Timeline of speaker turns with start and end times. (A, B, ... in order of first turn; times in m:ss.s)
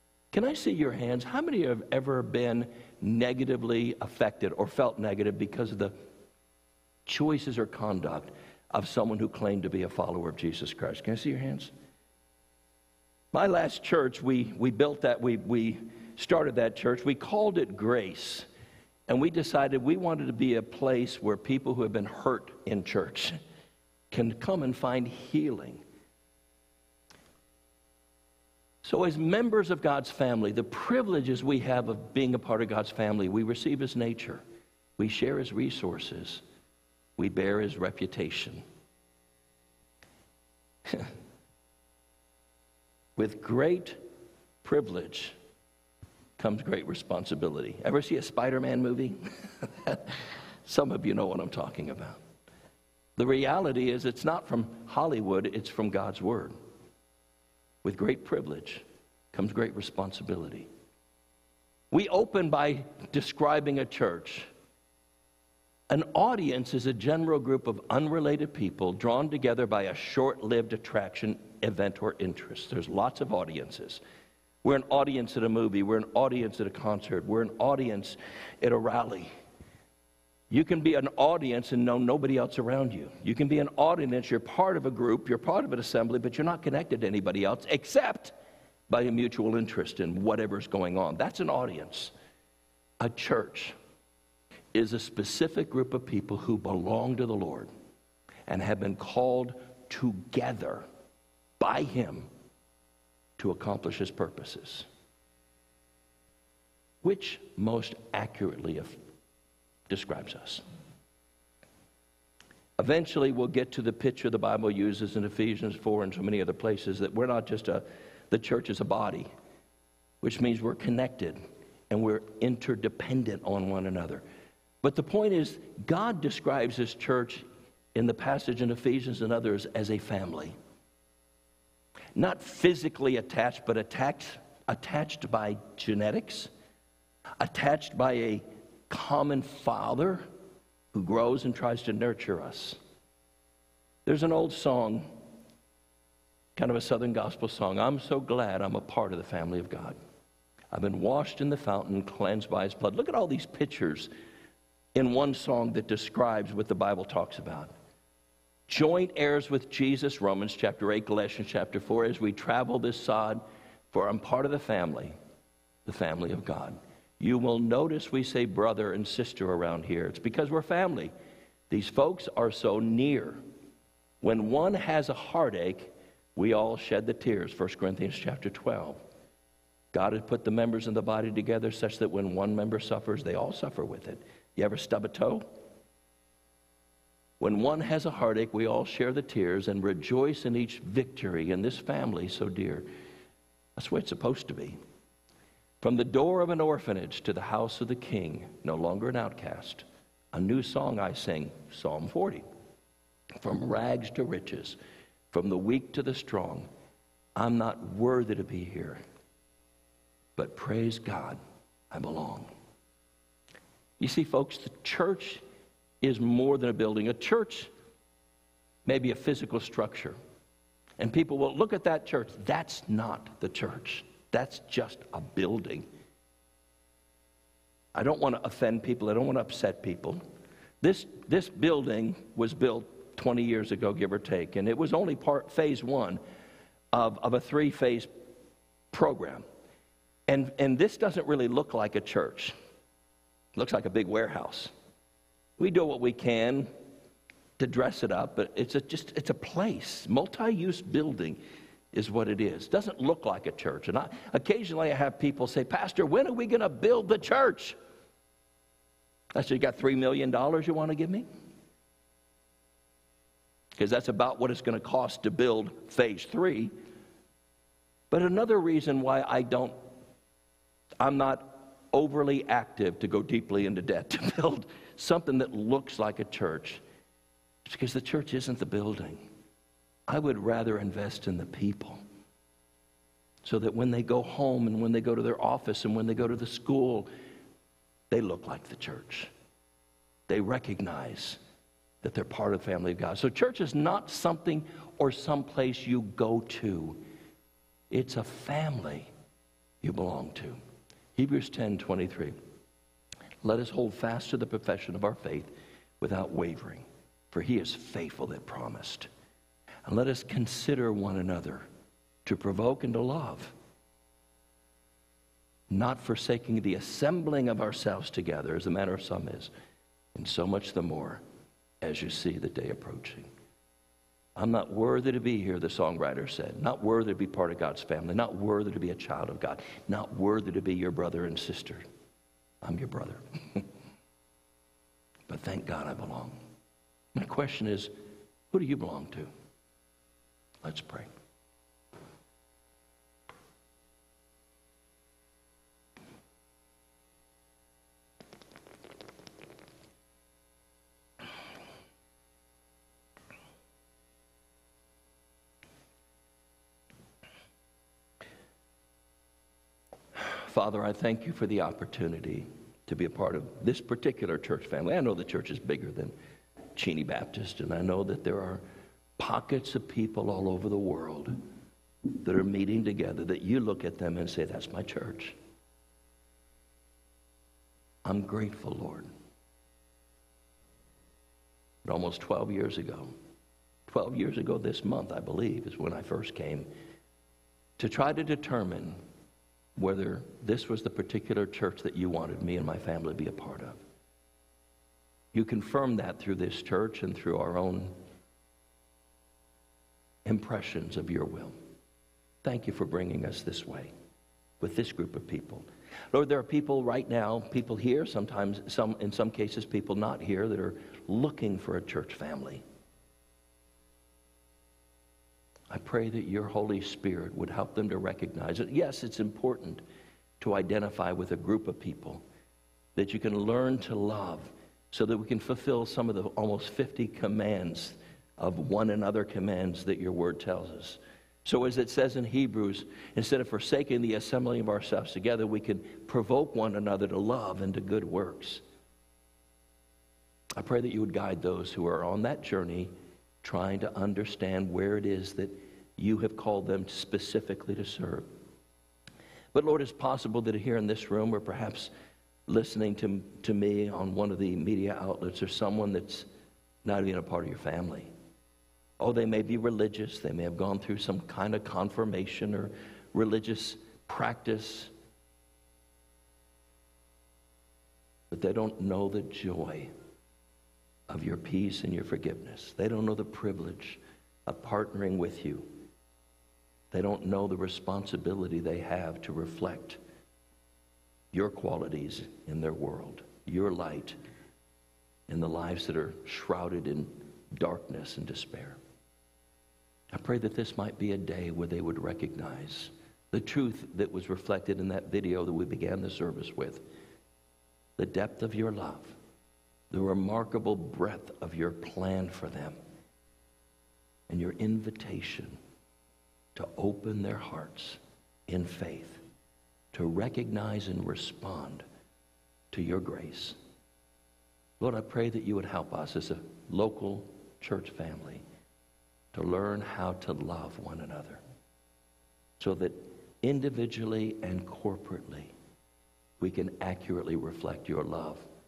0:00.3-0:06.0 A
0:07.1-0:11.7 A
0:13.3-0:18.5 A
0:19.1-0:23.4 A
0:24.1-0:25.8 A
0:28.8-0:34.4 A
0:35.0-0:36.4 A
0:37.2-0:38.6 A
0:43.2-0:44.0 A
0:44.6-0:45.4 A
0:46.4-0:52.2 A
0:53.2-0:56.6 A
0:57.8-1:00.7 A
1:01.9-1:04.5 A
1:05.9-1:14.0 A
1:14.6-1:19.3 A
1:20.5-1:28.4 A
1:28.9-1:32.1 A
1:33.0-1:33.8 A
1:34.7-1:37.7 A
1:38.5-1:40.9 A
1:41.6-1:42.3 A
1:43.4-1:44.9 A
1:47.0-1:49.0 A
1:49.9-1:50.6 A
1:52.8-1:59.3 A
2:00.2-2:01.4 A
2:01.9-2:04.2 A
2:04.8-2:10.6 A
2:12.2-2:16.5 A
2:17.4-2:20.3 A
2:20.9-2:22.8 A
2:24.0-2:25.1 A
2:26.6-2:30.0 A
2:30.7-2:34.1 A
2:35.0-2:37.7 A
2:38.7-2:45.2 A
2:45.9-2:51.1 A
2:51.7-2:53.4 A
2:54.2-2:59.0 A
2:59.9-3:05.5 A
3:07.4-3:12.9 A
3:13.8-3:14.8 A
3:15.8-3:22.5 A
3:23.4-3:24.8 A
3:25.3-3:26.7 A
3:27.4-3:29.0 A
3:30.4-3:31.4 A
3:31.9-3:32.5 A
3:34.0-3:35.4 A
3:36.0-3:37.7 A
3:38.8-3:40.2 A
3:41.0-3:45.9 A
3:47.9-3:50.2 A
3:50.8-3:56.2 A
3:56.9-3:58.1 A
3:58.9-3:59.4 A
4:00.3-4:02.6 A
4:03.6-4:04.7 A
4:05.6-4:06.7 A
4:07.6-4:11.4 A
4:11.9-4:17.8 A
4:19.4-4:21.3 A
4:23.8-4:26.7 A
4:28.1-4:29.8 A
4:31.0-4:36.8 A
4:37.6-4:39.2 A
4:40.1-4:42.0 A
4:43.4-4:47.1 A
4:48.1-4:49.3 A
4:50.3-4:51.4 A
4:52.0-4:57.0 A
4:57.9-4:59.1 A
4:59.8-5:00.6 A
5:01.2-5:02.4 A
5:03.4-5:09.1 A
5:09.9-5:11.7 A
5:12.2-5:13.5 A
5:15.7-5:19.5 A
5:20.2-5:21.2 A
5:21.8-5:23.3 A
5:24.4-5:31.8 A
5:32.6-5:33.7 A
5:35.3-5:36.4 A
5:37.1-5:37.9 A
5:38.5-5:39.3 A
5:40.6-5:41.1 A
6:00.2-6:06.1 A
6:06.7-6:08.6 A
6:09.2-6:11.4 A
6:12.2-6:15.4 A
6:18.0-6:19.1 A
6:21.8-6:23.1 A
6:23.9-6:26.7 A
6:27.8-6:29.0 A
6:29.8-6:33.8 A
6:35.3-6:37.9 A
6:40.2-6:41.6 A
6:42.4-6:43.9 A
6:44.6-6:52.6 A
6:55.7-6:59.8 A
7:00.4-7:02.2 A
7:03.0-7:18.6 A
7:20.6-7:22.9 A
7:23.4-7:28.3 A
7:29.5-7:31.9 A
7:32.5-7:36.3 A
7:36.8-7:38.1 A
7:39.0-7:44.9 A
7:48.3-7:49.9 A
7:51.1-7:55.7 A
7:56.9-8:00.0 A
8:01.3-8:04.2 A
8:05.3-8:08.8 A
8:10.1-8:16.8 A
8:18.0-8:19.2 A
8:19.9-8:22.8 A
8:24.3-8:25.6 A
8:26.6-8:29.2 A
8:29.9-8:31.8 A
8:32.7-8:33.6 A
8:34.8-8:38.4 A
8:39.3-8:41.4 A
8:42.6-8:45.5 A
8:46.4-8:48.4 A